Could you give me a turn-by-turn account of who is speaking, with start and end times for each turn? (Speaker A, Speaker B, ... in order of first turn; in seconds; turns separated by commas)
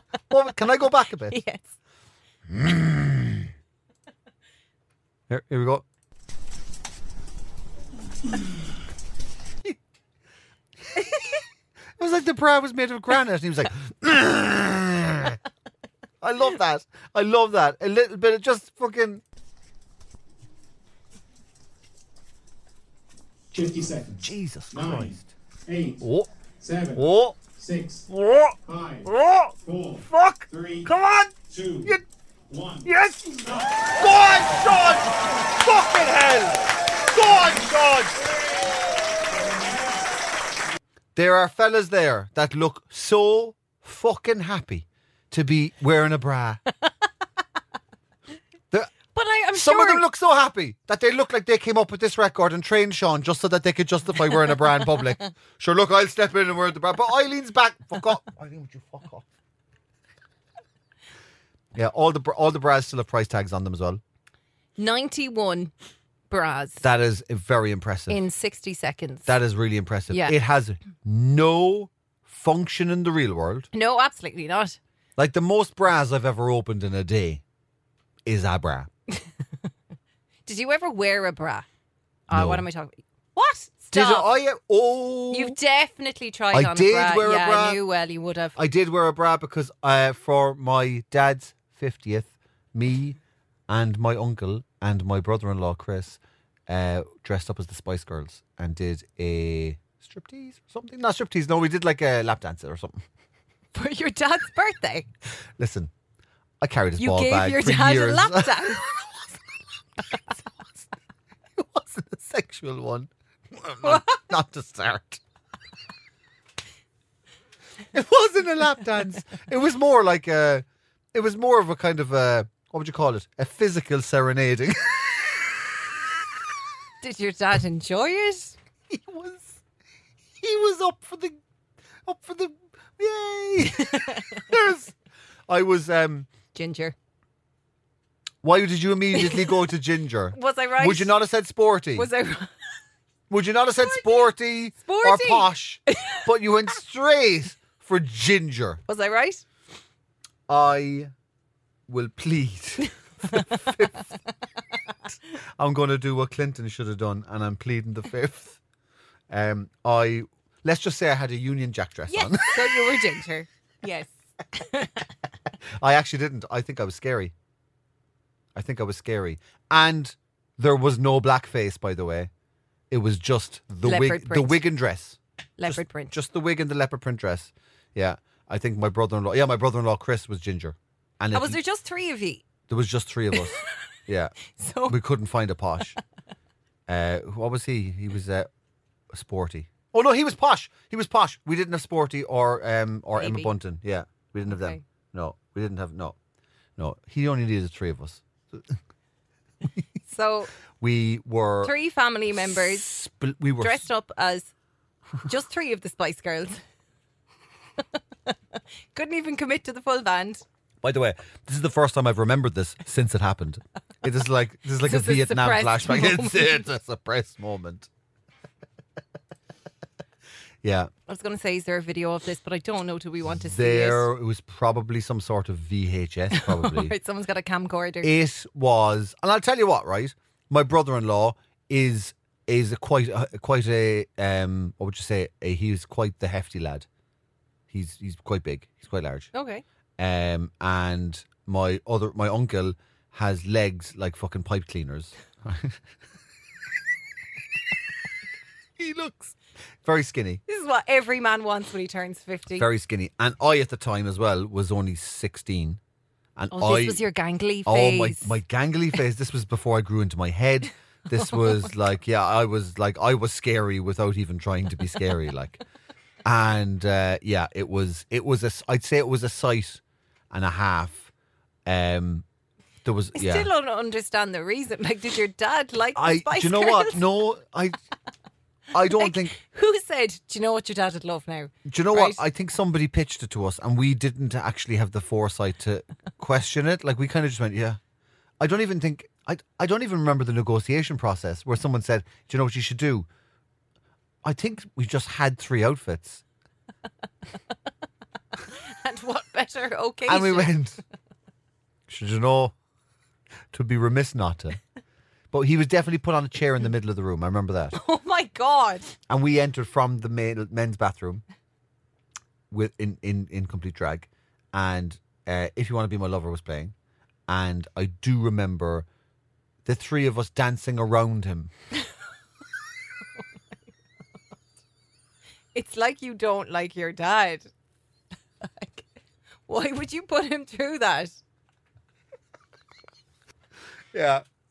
Speaker A: 0.3-1.4, Speaker B: 1.3-1.7, Speaker A: 2.5-3.5, Speaker A: 5.3-5.8, Speaker A: 12.0-15.4, Speaker A: 16.2-19.2, Speaker C: 23.5-26.0, Speaker A: 24.2-25.2, Speaker A: 26.0-26.3, Speaker C: 26.6-28.1, Speaker A: 27.0-27.4, Speaker A: 28.1-29.5, Speaker C: 28.7-29.1, Speaker C: 29.6-30.9, Speaker A: 30.1-31.3, Speaker C: 31.4-31.9, Speaker C: 32.5-32.9, Speaker A: 32.9-38.2, Speaker C: 33.4-33.9, Speaker C: 39.3-40.0, Speaker A: 41.1-46.6, Speaker B: 49.1-50.0, Speaker A: 49.5-59.3, Speaker A: 61.8-64.0, Speaker B: 64.8-65.7, Speaker B: 66.3-66.8, Speaker A: 66.8-68.2, Speaker B: 68.1-69.3, Speaker A: 69.3-73.7, Speaker B: 70.1-70.3, Speaker B: 73.7-74.8, Speaker A: 75.2-77.4, Speaker A: 78.2-78.9, Speaker B: 80.5-81.7, Speaker B: 82.3-84.3, Speaker A: 82.3-82.7, Speaker A: 83.9-85.6, Speaker B: 85.3-88.6, Speaker A: 86.5-87.8, Speaker A: 88.6-93.2, Speaker A: 93.7-103.0, Speaker B: 103.7-105.1, Speaker A: 105.6-105.9, Speaker A: 106.6-109.4, Speaker B: 107.0-108.8, Speaker A: 110.3-110.9, Speaker A: 111.5-115.2, Speaker B: 113.8-114.1, Speaker A: 117.9-125.5, Speaker B: 127.0-128.6, Speaker A: 128.9-129.6, Speaker A: 130.4-131.4, Speaker A: 132.1-134.9, Speaker B: 133.9-134.4, Speaker A: 135.5-136.3, Speaker B: 136.5-136.9, Speaker A: 138.4-142.1, Speaker B: 139.2-139.5, Speaker B: 140.3-141.1, Speaker B: 142.0-142.5, Speaker A: 143.3-148.8, Speaker B: 143.8-144.3, Speaker B: 144.8-146.2, Speaker B: 148.9-149.4, Speaker A: 150.5-151.1, Speaker A: 151.9-154.1, Speaker A: 155.6-158.6, Speaker A: 159.3-163.0, Speaker B: 162.1-165.0, Speaker A: 165.8-167.3, Speaker A: 168.6-172.3, Speaker A: 172.9-181.6, Speaker B: 173.8-174.6, Speaker B: 175.6-176.1, Speaker B: 181.3-182.5, Speaker A: 182.7-186.0, Speaker B: 184.5-185.0, Speaker A: 186.9-188.5, Speaker A: 189.1-196.2, Speaker B: 193.2-193.5, Speaker B: 194.5-194.8, Speaker A: 196.8-198.8, Speaker B: 200.1-200.5, Speaker A: 200.8-201.7, Speaker B: 201.6-202.9, Speaker A: 202.5-203.9, Speaker B: 203.6-204.5, Speaker B: 205.2-206.6, Speaker B: 208.3-210.4, Speaker A: 210.8-217.9, Speaker B: 214.8-216.6, Speaker A: 220.6-220.9, Speaker B: 221.1-224.1, Speaker A: 223.3-226.9, Speaker B: 226.3-228.1, Speaker A: 228.0-236.9, Speaker A: 237.7-239.3, Speaker B: 239.3-239.6, Speaker A: 240.0-245.8, Speaker A: 248.8-250.4, Speaker B: 250.5-252.7, Speaker A: 252.6-255.8, Speaker A: 256.4-257.0, Speaker B: 256.5-258.3, Speaker A: 257.6-265.6, Speaker A: 266.2-271.1, Speaker A: 271.7-272.2, Speaker A: 272.8-273.5, Speaker B: 273.2-277.0, Speaker A: 275.9-277.8, Speaker A: 278.7-279.4, Speaker B: 278.8-282.2, Speaker A: 281.7-287.8, Speaker A: 288.4-293.1, Speaker A: 294.2-296.2, Speaker B: 298.7-300.5, Speaker A: 300.1-300.8, Speaker A: 301.9-302.5, Speaker A: 303.5-304.6, Speaker A: 305.3-307.8, Speaker B: 307.7-308.9, Speaker A: 309.1-311.2, Speaker A: 312.5-316.7, Speaker A: 317.3-318.9, Speaker A: 319.6-321.5, Speaker B: 325.5-327.5, Speaker B: 328.4-328.9, Speaker B: 329.5-331.2, Speaker A: 333.9-334.2